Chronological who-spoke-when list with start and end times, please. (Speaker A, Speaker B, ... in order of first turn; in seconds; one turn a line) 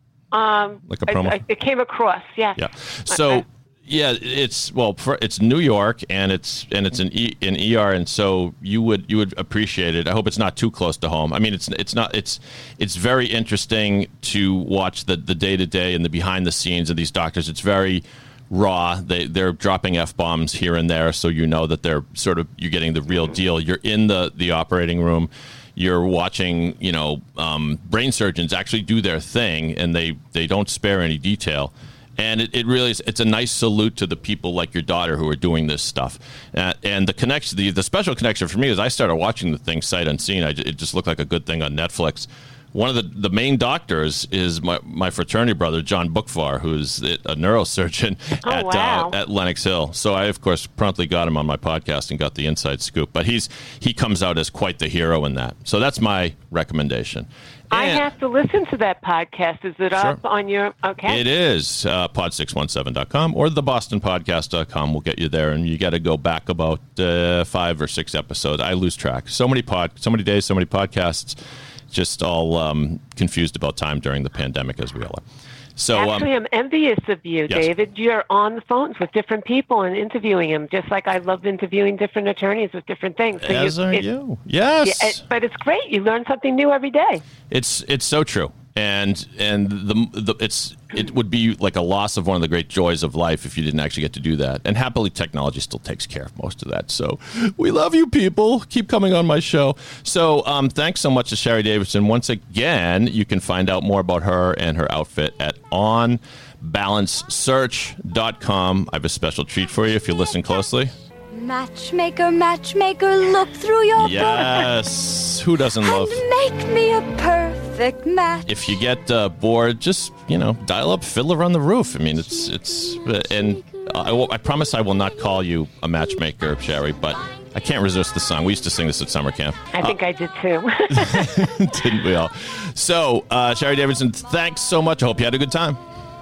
Speaker A: 0.3-3.4
Speaker B: 0.9-1.4
Speaker B: 2.6-58.1
Speaker A: 48.4-49.1
Speaker A: 57.7-61.2
Speaker B: 59.9-60.2
Speaker B: 61.1-71.4
Speaker B: 71.9-75.2
Speaker B: 75.8-76.3
Speaker A: 76.0-84.0
Speaker B: 83.4-85.2
Speaker A: 84.8-87.2
Speaker B: 87.5-110.9
Speaker C: 111.3-114.8
Speaker B: 114.0-116.2
Speaker C: 115.8-118.5
Speaker B: 118.5-130.0
Speaker A: 129.7-131.4
Speaker B: 130.9-135.8